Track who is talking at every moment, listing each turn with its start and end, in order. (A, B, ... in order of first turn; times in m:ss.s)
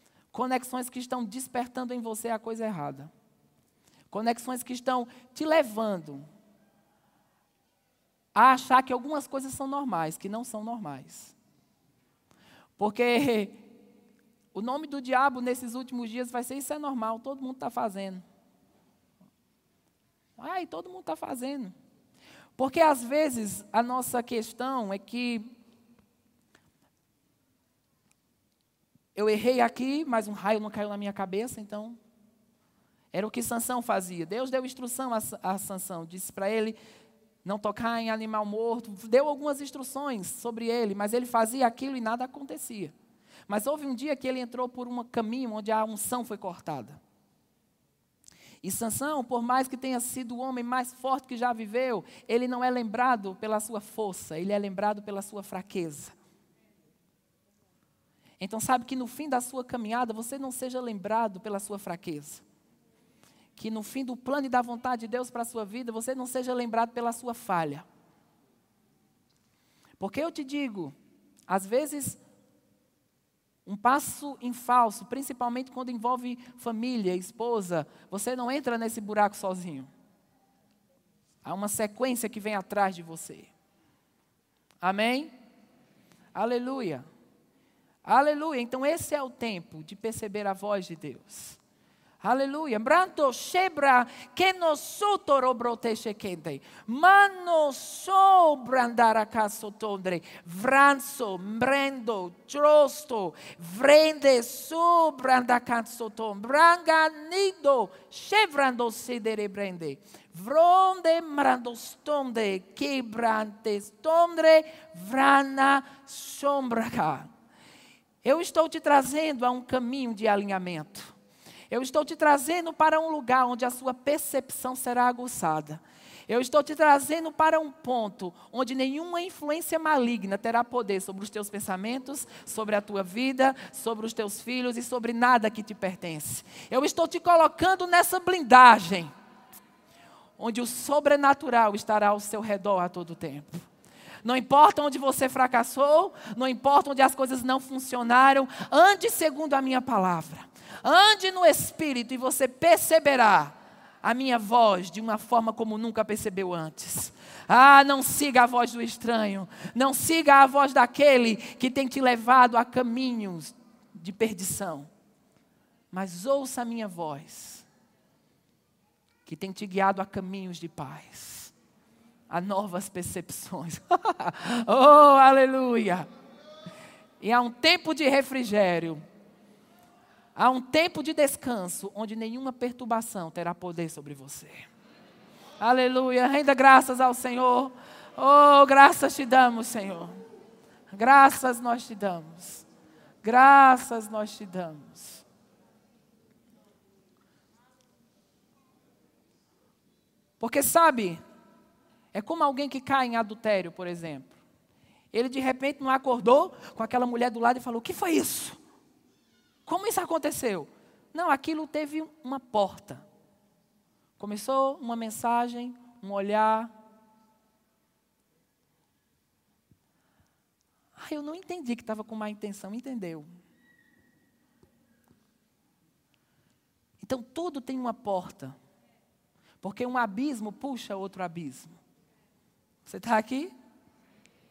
0:00.3-0:03.1 A
0:04.1-0:06.2 A
0:08.3-0:11.3 A
0:12.8-0:13.6 A
0:14.5-0:18.2 A
0:20.4-0:21.7 A
0:22.6-0:25.5 A
0:29.1-0:32.0 A
0:33.1-0:36.8 A
0:37.4-0:42.9 A
0:43.5-0:47.0 A
0:48.6-0:56.1 A
0:58.4-1:02.4 A
1:03.6-1:07.8 A
1:10.0-1:11.0 A
1:11.5-1:12.2 A
1:13.6-1:19.9 A
1:21.4-1:23.5 A
1:24.8-1:25.3 A
1:26.3-1:27.0 A
1:28.0-1:31.6 A
1:32.2-1:57.3 A
1:58.2-2:01.1 A
2:01.7-2:19.1 A
2:20.4-2:23.6 A
2:24.2-2:44.9 A
2:45.9-2:47.6 A
2:49.2-2:51.5 A
2:52.3-2:56.1 A
2:57.2-2:59.0 A
3:00.3-3:04.7 A
3:05.6-3:10.2 A
3:10.9-3:12.6 A
3:13.2-3:15.2 A
3:20.4-3:21.2 A
3:22.1-3:24.4 A
3:25.1-3:28.6 A
3:29.6-3:33.0 A
3:34.2-3:36.7 A
3:41.0-3:43.3 A
3:47.0-3:48.6 A
3:49.6-3:51.8 A
3:52.8-3:53.5 A